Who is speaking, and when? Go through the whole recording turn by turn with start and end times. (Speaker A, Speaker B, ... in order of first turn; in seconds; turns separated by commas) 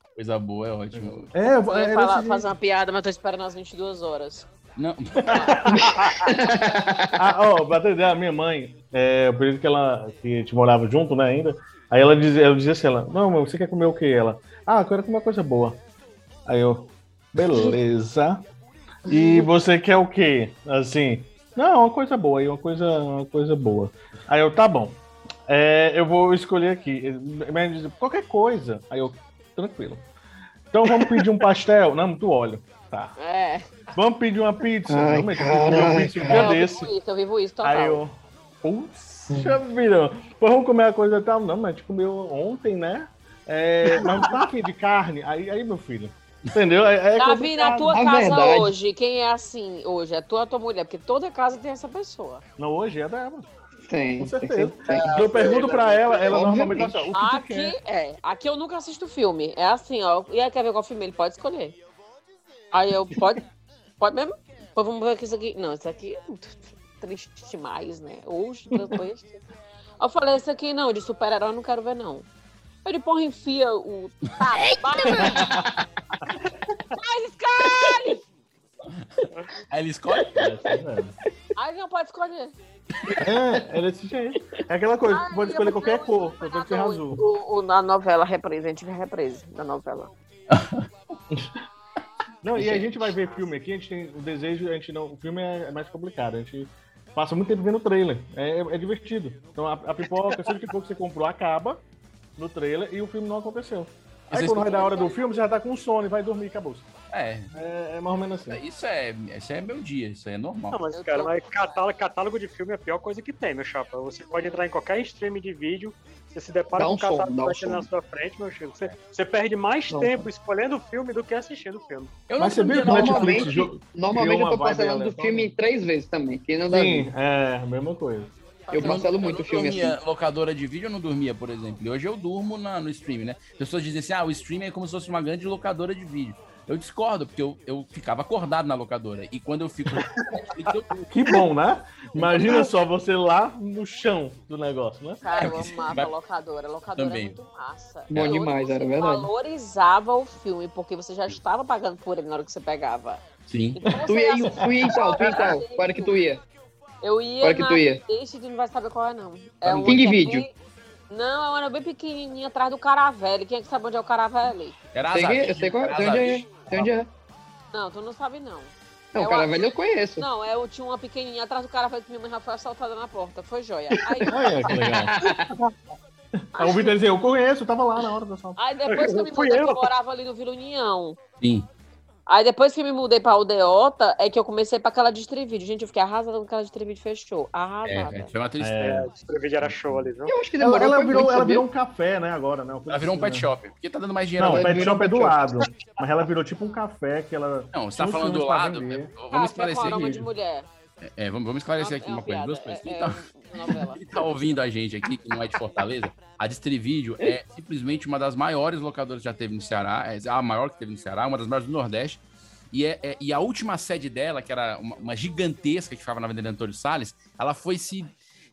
Speaker A: 0.2-1.3, Speaker B: 0.9-2.5, Speaker C: 1.6-4.5, Speaker A: 4.8-5.5, Speaker D: 5.5-5.8, Speaker E: 5.7-7.2, Speaker B: 7.2-15.8, Speaker B: 16.5-18.4, Speaker B: 19.1-30.1, Speaker E: 19.1-19.5, Speaker B: 30.7-33.1, Speaker C: 33.2-33.7, Speaker B: 34.0-36.9, Speaker E: 34.9-36.5, Speaker C: 36.3-38.0, Speaker B: 37.6-48.0, Speaker E: 43.9-44.2, Speaker C: 47.2-52.4, Speaker E: 47.9-48.7, Speaker B: 52.6-53.5, Speaker E: 53.9-57.1, Speaker B: 54.2-57.8, Speaker D: 55.3-56.2, Speaker C: 57.1-61.8, Speaker C: 62.7-63.4, Speaker C: 64.0-69.4, Speaker C: 70.0-72.3, Speaker C: 72.8-75.4, Speaker B: 75.1-75.6, Speaker C: 77.0-78.2, Speaker A: 79.7-80.5, Speaker B: 80.3-81.2, Speaker C: 81.6-82.5, Speaker B: 83.2-87.2, Speaker C: 85.1-90.1, Speaker A: 90.5-90.8, Speaker B: 92.4-101.8, Speaker B: 102.4-106.9, Speaker A: 104.3-104.8, Speaker C: 104.7-105.3, Speaker A: 107.1-107.5, Speaker B: 107.5-108.6, Speaker A: 108.5-110.8, Speaker D: 110.7-122.1, Speaker C: 110.9-111.8, Speaker E: 116.8-117.9, Speaker E: 119.9-120.3, Speaker A: 122.3-123.6, Speaker B: 122.4-125.5, Speaker E: 122.8-127.1, Speaker B: 126.7-128.3, Speaker C: 128.7-129.7, Speaker E: 128.7-130.0, Speaker A: 128.7-141.1, Speaker B: 141.1-145.2, Speaker C: 145.2-153.2, Speaker A: 145.4-146.1, Speaker A: 147.0-147.4, Speaker E: 148.1-149.3, Speaker A: 153.5-153.8, Speaker C: 153.8-156.2, Speaker B: 153.9-154.9, Speaker E: 154.1-156.4, Speaker C: 157.0-160.5, Speaker E: 157.4-158.0, Speaker E: 159.7-160.5, Speaker C: 161.1-164.8, Speaker A: 164.9-166.6, Speaker E: 165.1-167.1, Speaker C: 167.7-174.4, Speaker E: 169.1-170.2, Speaker E: 174.2-175.5, Speaker B: 174.3-175.2, Speaker B: 176.4-178.6, Speaker C: 176.6-176.9, Speaker C: 178.6-181.2, Speaker D: 178.9-179.8, Speaker A: 181.4-181.7, Speaker C: 182.3-188.3, Speaker A: 187.9-189.1, Speaker B: 188.6-189.1, Speaker D: 188.8-190.3, Speaker B: 189.6-190.1, Speaker E: 190.3-191.7, Speaker B: 190.6-193.5, Speaker A: 192.9-194.8, Speaker B: 194.4-199.1, Speaker E: 194.4-195.7, Speaker A: 197.7-200.2, Speaker C: 199.3-200.7, Speaker A: 201.0-203.2, Speaker C: 201.8-204.0, Speaker A: 204.0-218.1